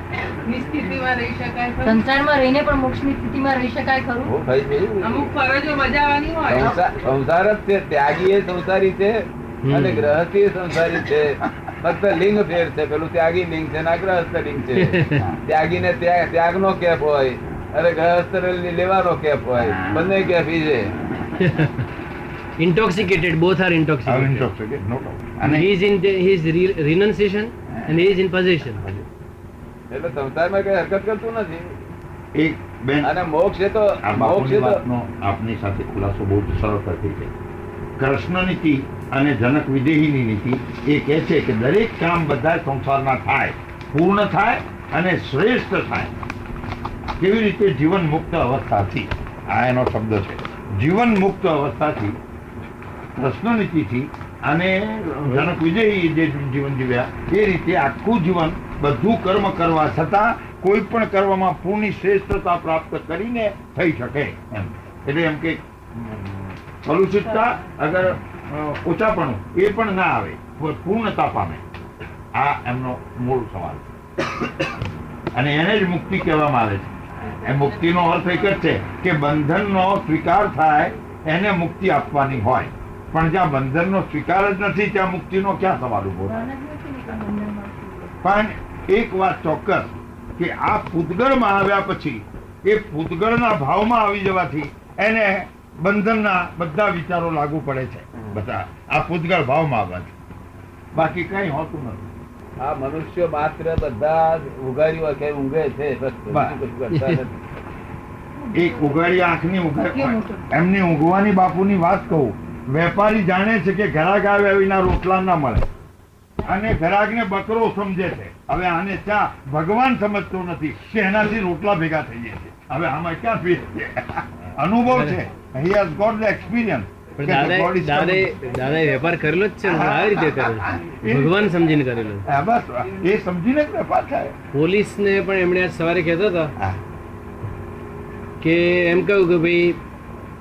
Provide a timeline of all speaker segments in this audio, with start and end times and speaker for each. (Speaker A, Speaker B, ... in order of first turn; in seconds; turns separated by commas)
Speaker A: 0.4-2.0, Speaker B: 1.8-4.3, Speaker C: 4.2-5.4, Speaker A: 5.0-6.8, Speaker C: 6.5-20.9, Speaker D: 9.7-10.2, Speaker D: 14.8-15.3, Speaker D: 21.4-21.9, Speaker D: 22.6-24.4, Speaker E: 24.0-25.7, Speaker D: 25.4-28.8, Speaker E: 27.7-28.0, Speaker C: 29.9-31.8, Speaker E: 32.3-33.1, Speaker C: 33.0-34.8, Speaker E: 34.0-37.3, Speaker E: 38.0-46.1, Speaker E: 47.2-52.2, Speaker E: 53.2-71.6, Speaker E: 72.3-73.8, Speaker E: 75.3-86.5, Speaker B: 86.2-88.2, Speaker E: 88.2-100.1, Speaker C: 98.2-98.4, Speaker E: 100.9-102.0, Speaker C: 102.6-107.3, Speaker E: 106.3-106.5, Speaker D: 106.9-107.2, Speaker B: 108.4-108.9, Speaker E: 108.5-115.6, Speaker B: 109.9-110.5, Speaker E: 116.4-128.3, Speaker D: 124.9-125.2, Speaker D: 127.2-132.2, Speaker E: 129.6-131.3, Speaker E: 132.3-134.3, Speaker D: 134.5-136.5, Speaker D: 138.4-139.8